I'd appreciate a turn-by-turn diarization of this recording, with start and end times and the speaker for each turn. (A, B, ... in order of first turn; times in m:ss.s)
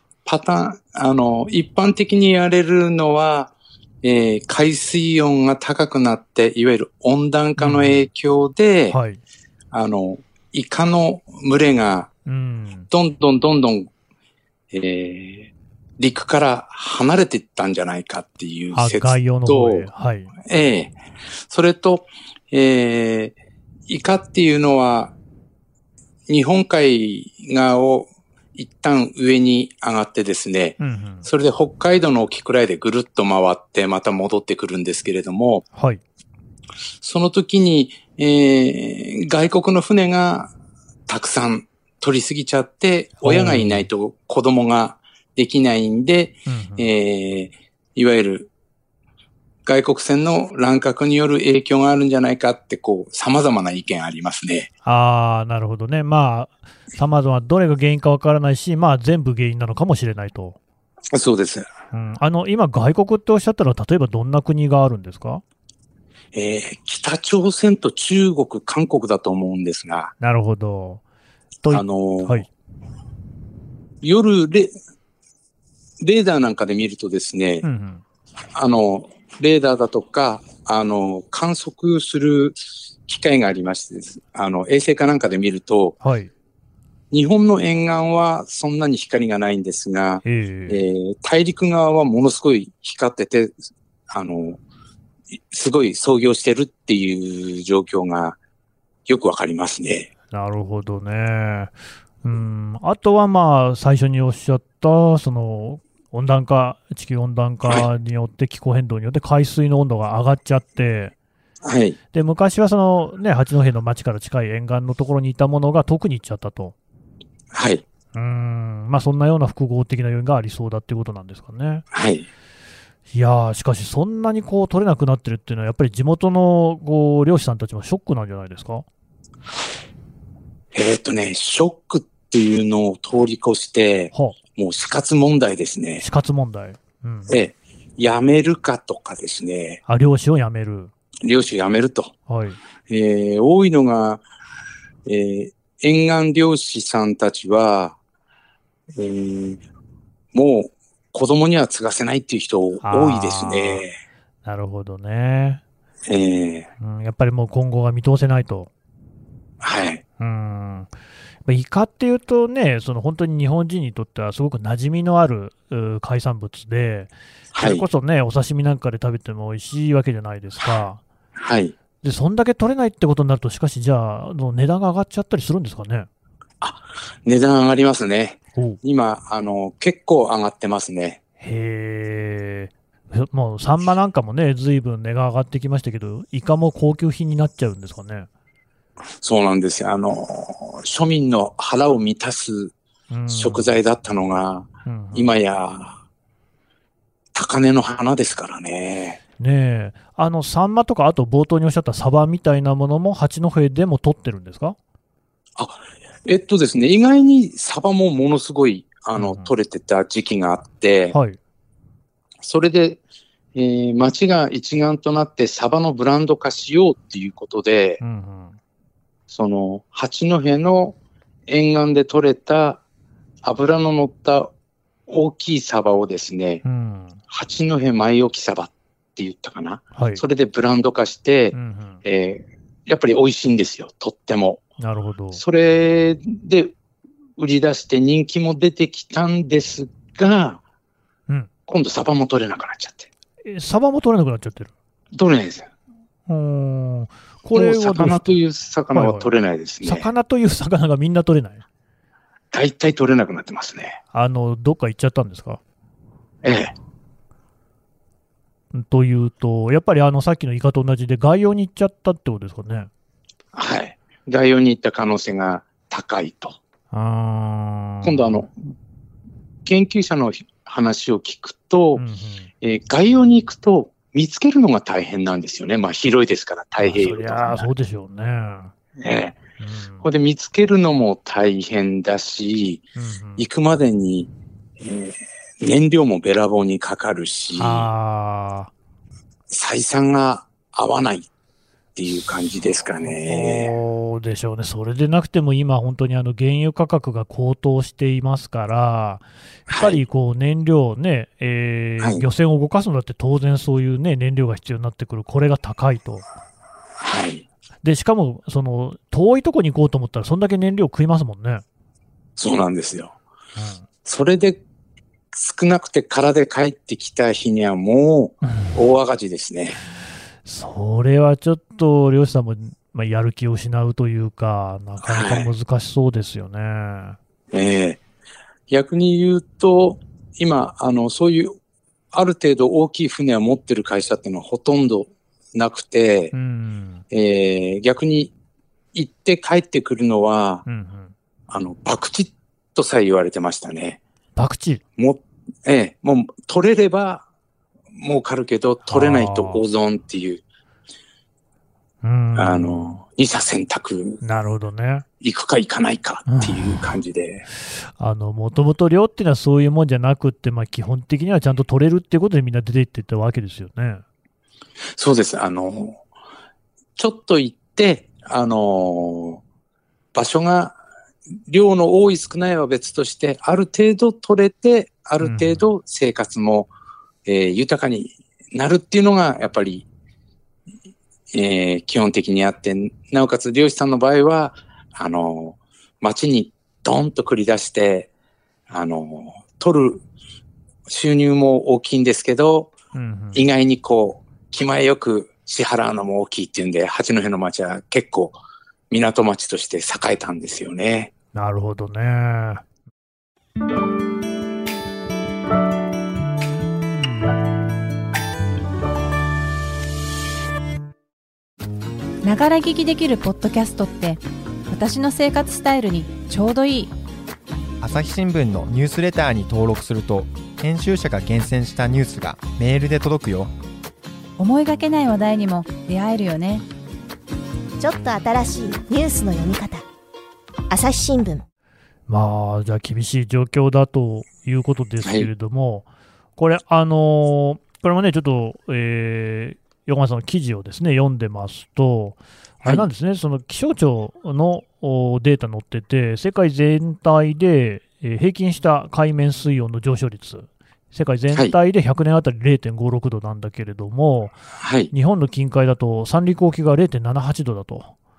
0:00.2-0:03.5 A
0:04.0-0:09.0 A
0:07.6-0:08.1 B
0:08.9-0:09.2 B
0:09.7-0:12.1 A
0:12.2-0:12.9 B
0:12.9-0:13.9 A
0:14.7-0:19.9 A
0:18.7-0:20.3 B
0:20.4-0:20.9 A
0:21.5-0:23.3 A
0:23.9-0:25.1 A
0:26.3-0:35.6 A
0:30.8-0:31.3 B
0:35.7-0:36.0 B
0:37.0-0:40.5 A
0:41.1-0:48.5 A
0:43.2-0:43.9 B
0:46.5-0:46.9 B
0:49.6-0:54.7 A
0:54.8-1:00.6 B
1:01.1-1:01.7 A
1:01.9-1:05.4 B
1:06.3-1:10.1 A
1:10.2-1:11.0 B
1:11.6-1:12.5 B
1:11.7-1:12.4 A
1:14.0-1:14.7 A
1:16.0-1:17.6 A
1:17.6-1:18.0 B
1:18.5-1:26.0 A
1:26.0-1:26.3 B
1:27.1-1:33.5 A
1:30.2-1:30.8 B
1:34.1-1:34.6 A
1:35.5-1:38.4 A
1:39.1-1:40.1 A
1:40.3-1:51.1 B
1:51.6-1:52.0 A
1:52.1-1:56.7 B
1:57.5-1:57.8 A
1:58.1-2:01.8 B
2:01.9-2:02.3 A
2:03.1-2:08.8 B
2:10.7-2:16.0 A
2:16.0-2:17.3 B
2:17.3-2:19.8 A
2:19.9-2:20.9 B
2:21.2-2:22.1 A
2:22.3-2:22.6 B
2:22.9-2:24.2 A
2:25.1-2:28.0 A
2:29.0-2:29.6 A
2:30.3-2:33.9 A
2:32.8-2:33.8 B
2:34.4-2:35.6 B
2:36.1-2:36.7 A
2:36.8-2:38.7 B
2:39.6-2:40.0 A
2:40.2-2:40.9 B
2:41.4-2:51.0 B
2:47.5-2:47.8 A
2:51.4-2:51.7 A
2:52.0-2:56.1 B
2:56.6-3:01.2 A
3:01.4-3:08.3 B
3:09.2-3:12.7 A
3:13.1-3:13.7 B
3:13.3-3:16.0 A
3:14.8-3:15.4 B
3:17.3-3:19.2 A
3:19.4-3:24.8 B
3:25.6-3:31.1 A
3:29.2-3:29.5 B
3:31.1-3:31.4 B
3:32.4-3:33.0 A
3:33.5-3:38.0 A
3:38.0-3:38.6 B
3:39.3-3:42.8 A
3:43.4-3:44.5 A
3:45.1-3:46.6 A
3:46.6-3:47.2 B
3:47.3-3:54.6 A
3:50.0-3:50.2 B
3:51.5-3:52.0 B
3:54.8-3:55.4 B
3:55.4-3:56.7 A
3:57.4-4:00.6 A
4:01.7-4:03.1 A
4:03.4-4:04.7 B
4:05.1-4:05.7 A
4:06.3-4:08.4 B
4:07.6-4:10.1 A
4:08.9-4:09.3 B
4:09.8-4:11.6 B
4:12.5-4:14.0 A
4:14.1-4:15.6 B
4:16.4-4:16.7 A
4:18.7-4:22.9 B
4:23.5-4:26.6 A
4:26.9-4:28.4 B
4:28.0-4:28.5 A
4:29.6-4:32.0 A
4:32.0-4:32.5 B
4:32.6-4:37.7 A
4:36.8-4:38.7 B
4:39.0-4:39.4 A
4:39.6-4:40.0 B
4:40.0-4:42.9 A
4:43.0-4:43.4 B
4:43.4-4:47.9 A
4:47.5-4:48.7 B
4:49.5-4:51.3 A
4:52.0-4:53.7 A
4:53.0-5:06.2 B
4:59.7-5:00.0 A
5:07.0-5:07.4 A
5:07.8-5:11.6 B
5:12.4-5:13.1 A
5:13.6-5:13.8 B
5:14.0-5:14.6 A
5:15.3-5:19.8 A
5:18.4-5:18.8 B
5:20.4-5:27.2 B
5:25.0-5:25.5 A
5:27.5-5:28.0 A
5:28.7-5:31.6 A
5:32.1-5:36.3 A
5:36.3-5:37.0 B
5:37.1-5:38.3 A
5:38.9-5:40.6 A
5:40.6-5:41.1 B
5:41.5-5:44.0 A
5:44.4-5:44.8 B
5:45.0-5:47.2 A
5:47.9-5:50.4 A
5:48.9-5:49.6 B
5:52.0-5:53.0 B
5:52.4-5:54.2 A
5:54.2-5:55.0 B
5:55.2-5:57.4 A
5:56.2-5:56.8 B
5:58.0-6:04.0 B
6:05.0-6:06.0 A
6:07.0-6:09.4 A
6:10.1-6:10.8 A
6:11.5-6:16.7 A
6:15.2-6:15.6 B
6:17.2-6:19.8 A
6:21.3-6:28.1 A
6:28.7-6:30.0 A
6:30.9-6:32.7 A
6:32.9-6:33.4 B
6:33.3-6:38.4 A
6:38.9-6:41.1 A
6:41.3-6:42.6 B
6:52.2-6:56.9 C
6:57.8-7:03.5 D
7:04.4-7:06.6 C
7:07.8-7:09.8 E
7:10.7-7:11.4 E
7:12.1-7:15.8 B
7:16.4-7:34.4 B
7:34.6-7:34.9 A
7:34.9-7:37.9 B